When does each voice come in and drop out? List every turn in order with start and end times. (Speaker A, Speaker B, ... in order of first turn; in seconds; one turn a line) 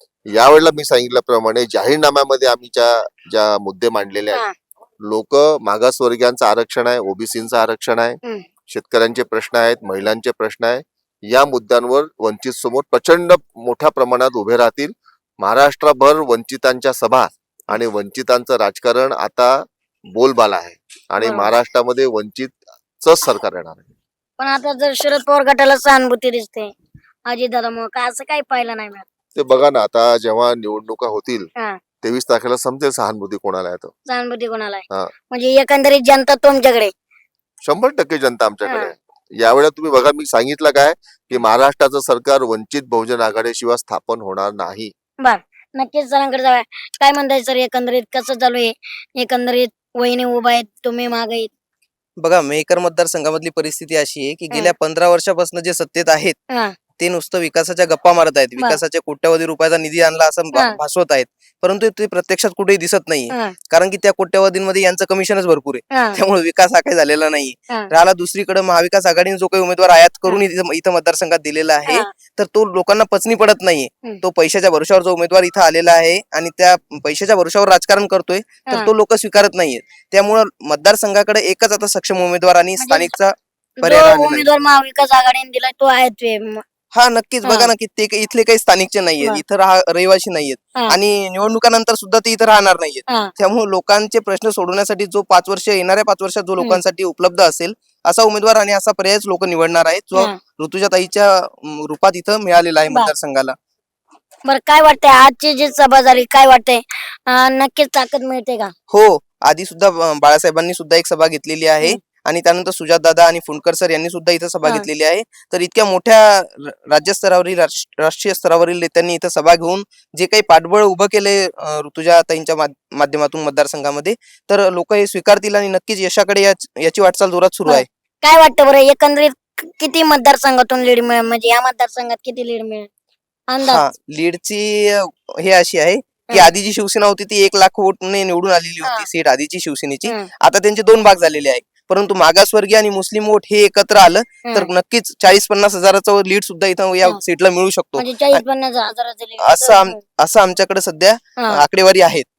Speaker A: 0.3-4.4
Speaker A: 5.0-23.9
Speaker B: 21.2-21.5
Speaker B: 24.4-26.7
Speaker B: 27.2-29.1
Speaker A: 29.4-31.5
Speaker A: 32.0-33.9
Speaker B: 34.0-36.9
Speaker A: 37.6-44.9
Speaker B: 38.6-38.9
Speaker B: 45.2-51.5
Speaker C: 52.2-56.4
Speaker B: 56.5-56.7
Speaker C: 57.0-84.5
Speaker B: 63.3-63.5
Speaker B: 65.9-66.2
Speaker B: 78.7-78.9
Speaker B: 82.8-83.1
Speaker B: 83.8-86.6
Speaker C: 86.9-103.5
Speaker B: 87.4-87.7
Speaker B: 104.4-108.7
Speaker C: 108.9-127.8
Speaker B: 127.7-132.9
Speaker B: 133.5-133.8
Speaker C: 133.7-148.4
Speaker B: 144.4-144.7
Speaker B: 148.0-150.0
Speaker C: 149.4-152.2
Speaker B: 151.4-151.6